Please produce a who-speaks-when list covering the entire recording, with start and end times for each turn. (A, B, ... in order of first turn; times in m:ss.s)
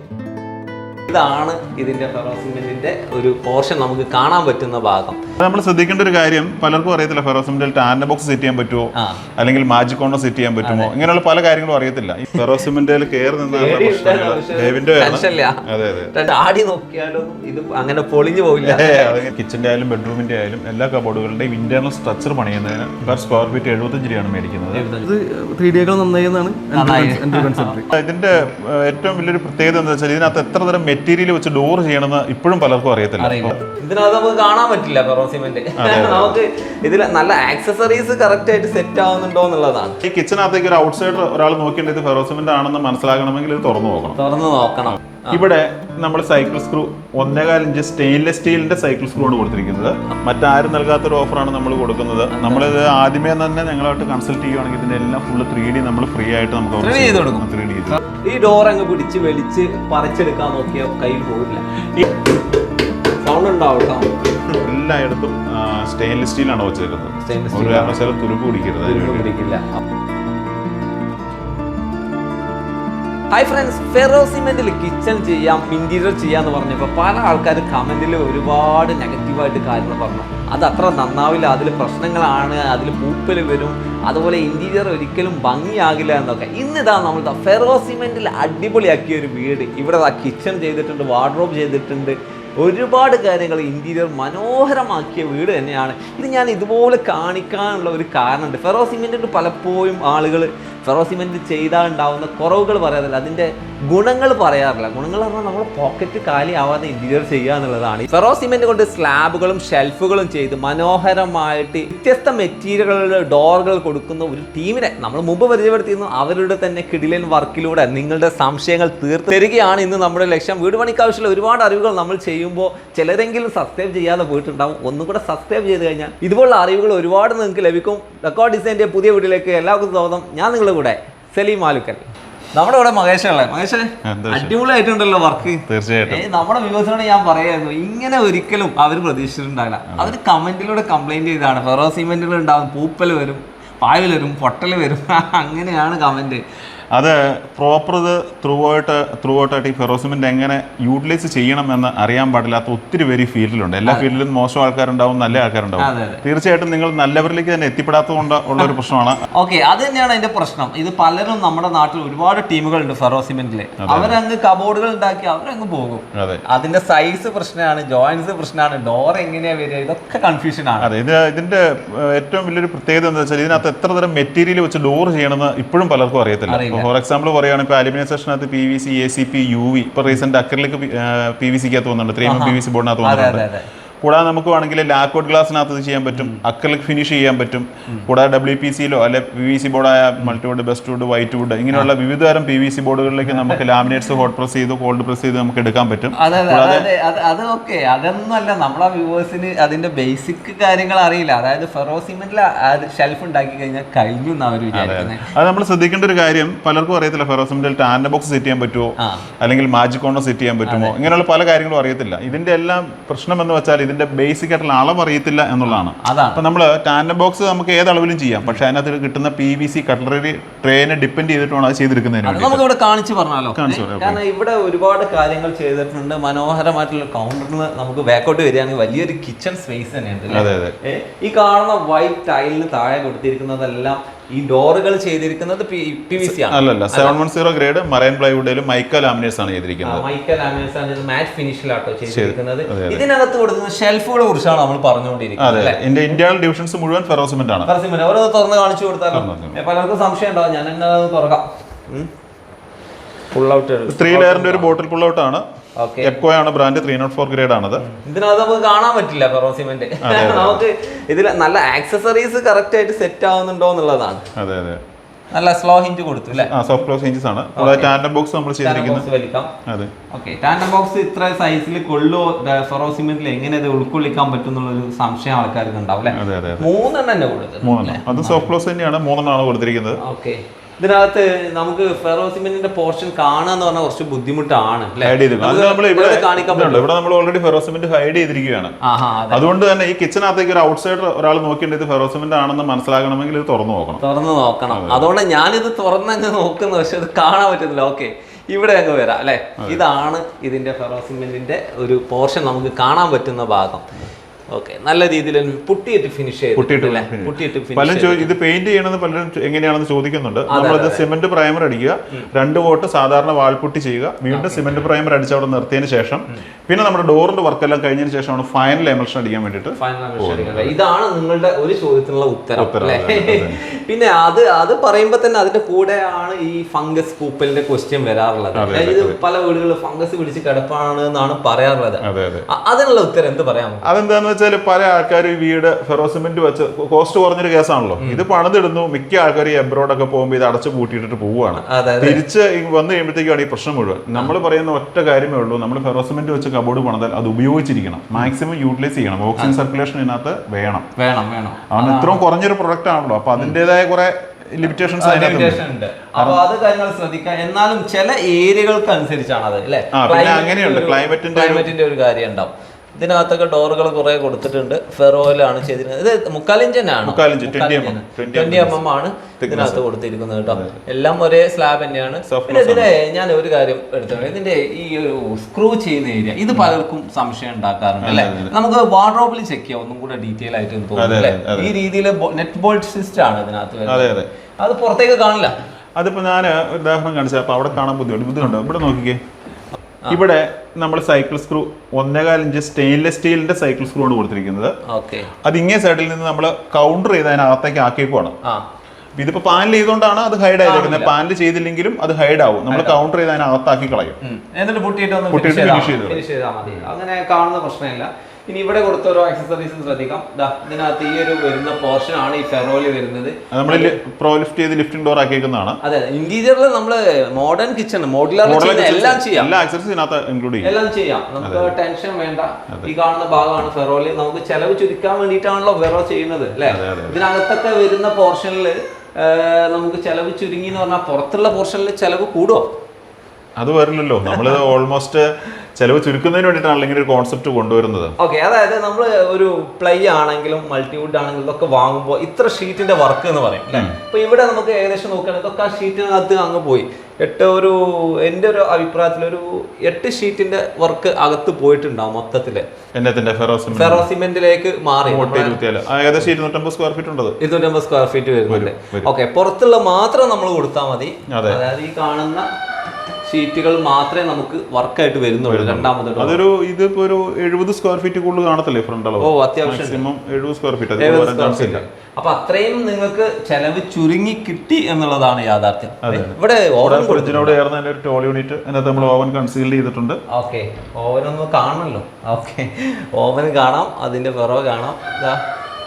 0:01.1-0:05.2 A
0:05.4-0:16.1 B
0:09.0-0:09.2 A
0:10.6-0:10.9 A
0:13.5-0:19.2 A
0:18.6-0:24.9 B
0:24.7-0:25.1 A
0:25.0-0:27.9 C
0:26.8-0:27.8 A
0:27.9-0:33.6 B
0:33.2-0:40.0 A
0:35.8-0:36.4 B
0:40.0-0:44.2 B
0:44.2-0:45.4 A
0:45.3-0:58.0 B
0:52.3-0:52.7 A
0:56.8-0:57.4 A
0:58.0-1:01.6 A
1:03.2-1:04.6 A
1:04.6-1:09.3 B
1:07.2-1:08.0 A
1:08.8-1:09.8 A
1:13.3-2:26.4 A
2:14.0-2:14.5 B
2:15.7-2:16.2 B
2:26.9-2:39.2 B
2:35.8-2:36.2 A
2:39.3-2:50.9 A
2:43.8-2:44.2 B
2:46.1-2:46.4 B
2:50.8-3:03.5 B
2:56.5-2:56.9 A
3:02.2-3:03.7 A
3:04.0-3:16.9 B
3:06.2-3:06.4 A
3:13.3-3:13.6 A
3:16.2-3:25.3 A
3:24.7-3:42.6 B
3:29.0-3:29.3 A
3:30.7-3:31.0 A
3:36.0-3:36.4 A
3:42.2-3:57.2 A
3:43.6-3:44.2 B
3:50.3-3:50.8 B
3:56.2-4:00.0 B
3:59.8-4:05.8 A
4:02.1-4:03.0 B
4:05.4-4:07.7 B
4:07.6-4:12.1 A
4:09.1-4:09.6 B
4:13.3-4:14.7 A
4:13.9-4:15.4 B
4:15.8-4:16.1 A
4:16.0-4:17.9 B
4:17.8-4:24.3 A
4:20.0-4:20.6 B
4:24.4-4:24.8 B
4:25.3-4:26.5 A
4:26.4-4:29.1 B
4:27.6-4:27.9 A
4:28.6-4:29.5 A
4:29.7-4:29.9 B
4:30.1-4:38.5 A
4:36.1-4:36.7 B
4:37.6-4:40.0 B
4:40.0-4:46.9 A
4:45.0-4:48.8 B
4:48.8-4:49.4 A
4:49.3-4:54.0 B
4:54.0-5:03.9 A
4:54.7-4:55.1 B
5:04.5-5:08.3 A
5:06.6-5:20.7 B
5:10.5-5:11.0 A
5:14.3-5:14.8 A
5:19.8-5:33.9 A
5:22.6-5:23.6 B
5:28.6-5:29.2 B
5:32.0-5:32.5 B
5:33.8-5:50.9 B
5:41.6-5:42.2 A
5:51.0-5:52.2 A
5:51.7-5:55.6 B
5:55.0-6:25.6 A
5:56.2-5:56.4 B
5:59.9-6:01.7 B
6:07.1-6:08.8 B
6:09.4-6:09.8 B
6:10.5-6:10.8 B
6:12.3-6:12.9 B
6:18.0-6:18.5 B
6:21.0-6:21.7 B
6:23.9-6:24.3 B
6:26.0-6:29.2 B
6:30.1-6:34.8 B
6:34.9-6:35.3 A
6:35.4-6:38.4 B
6:39.2-6:44.2 B
6:40.6-6:41.1 A
6:42.7-6:43.0 A
6:44.2-6:54.0 A
6:45.3-6:46.2 B
6:53.5-6:55.8 B
6:55.8-6:59.5 A
6:58.4-7:00.7 B
7:00.6-7:12.7 A
7:01.4-7:01.7 B
7:06.7-7:07.2 B
7:13.6-7:18.1 B
7:18.2-7:32.7 A
7:33.0-7:34.1 B
7:33.7-7:35.6 A
7:35.1-7:37.4 B
7:37.4-7:42.5 A
7:38.5-7:39.1 B
7:41.3-7:41.6 B
7:43.3-7:46.4 A
7:45.5-7:51.8 B
7:49.2-7:50.0 A
7:51.0-7:57.6 A
7:56.0-8:00.2 B
8:00.3-8:05.4 A